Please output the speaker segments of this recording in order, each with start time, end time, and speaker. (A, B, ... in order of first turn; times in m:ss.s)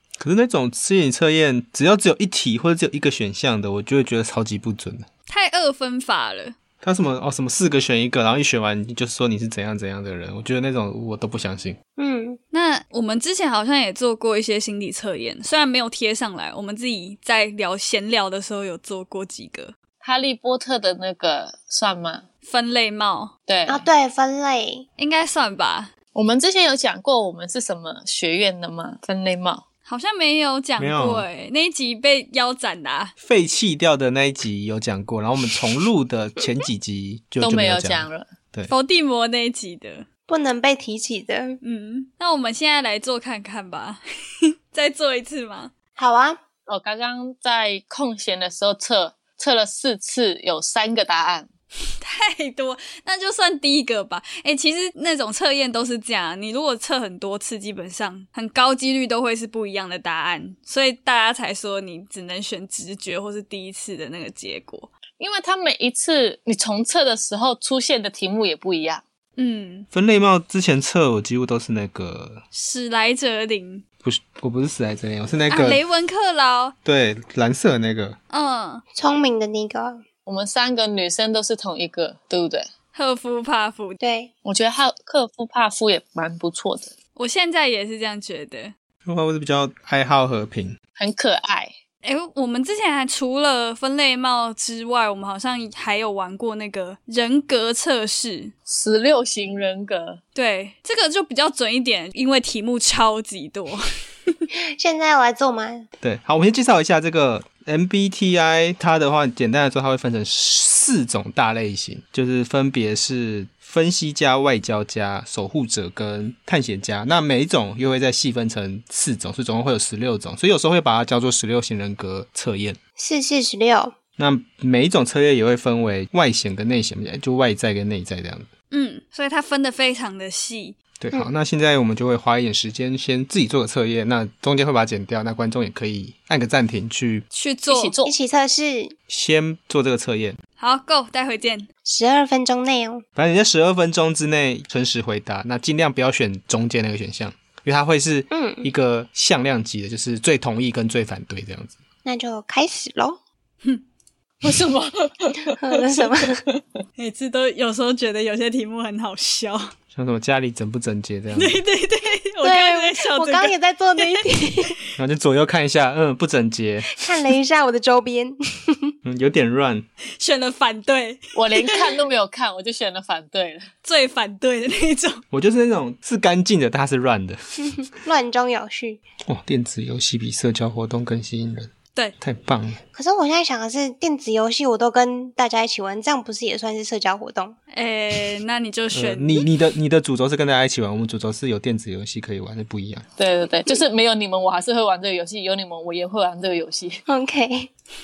0:00.2-0:05.1 A
0:05.3-0:06.6 B
0:06.8-0:11.8 A
0:12.0-0:12.4 C
0:12.5-0:19.7 B
0:20.0-0:22.2 D
0:22.4-0:23.3 B
0:23.5-0:23.9 D
0:23.6-0:24.8 C
0:25.0-0:25.9 B
0:26.1-0:29.6 D
0:29.8-0:33.1 B
0:30.8-0:31.2 A
0:33.2-0:38.7 A
0:37.4-0:38.3 D
0:38.7-0:40.0 B
0:40.3-0:41.6 C
0:41.6-0:45.7 B
0:46.0-0:46.4 C
0:46.7-0:51.5 D
0:52.0-1:04.9 B
1:05.2-1:09.0 D
1:09.4-1:09.9 B
1:09.9-1:12.4 A
1:12.5-1:13.8 B
1:14.0-1:15.8 A
1:15.5-1:16.7 B
1:16.8-1:18.2 A
1:18.3-1:18.8 B
1:18.9-1:20.0 C
1:20.2-1:22.7 D
1:22.9-1:24.0 B
1:24.0-1:24.3 C
1:24.4-1:26.9 D
1:27.2-1:28.7 B
1:29.0-1:30.8 A
1:31.0-1:31.7 D
1:32.0-1:38.5 B
1:38.7-1:40.2 D
1:40.3-1:44.3 B
1:44.8-1:45.9 C
1:46.0-2:02.8 A
2:03.0-2:04.0 C
2:04.2-2:08.5 A
2:08.7-2:10.8 B
2:11.0-2:17.2 A
2:17.3-2:17.9 B
2:17.7-2:18.1 D
2:18.0-2:18.9 C
2:19.1-2:20.4 A
2:20.6-2:21.7 B
2:21.8-2:23.0 C
2:23.2-2:31.8 A
2:28.3-2:28.7 C
2:32.0-2:33.2 C
2:34.4-2:36.6 D
2:35.6-2:36.4 C
2:37.0-2:39.7 B
2:39.9-2:41.6 A
2:41.3-2:44.7 B
2:42.4-2:44.7 C
2:45.0-2:46.9 A
2:47.0-2:48.9 C
2:49.0-2:49.8 A
2:50.2-2:51.8 B
2:51.3-2:53.7 D
2:53.8-2:55.2 B
2:55.3-2:57.4 A
2:57.8-2:59.0 C
2:59.3-3:02.8 A
3:02.9-3:07.6 C
3:07.7-3:09.5 B
3:08.9-3:13.0 A
3:13.2-3:17.0 D
3:17.1-3:17.7 C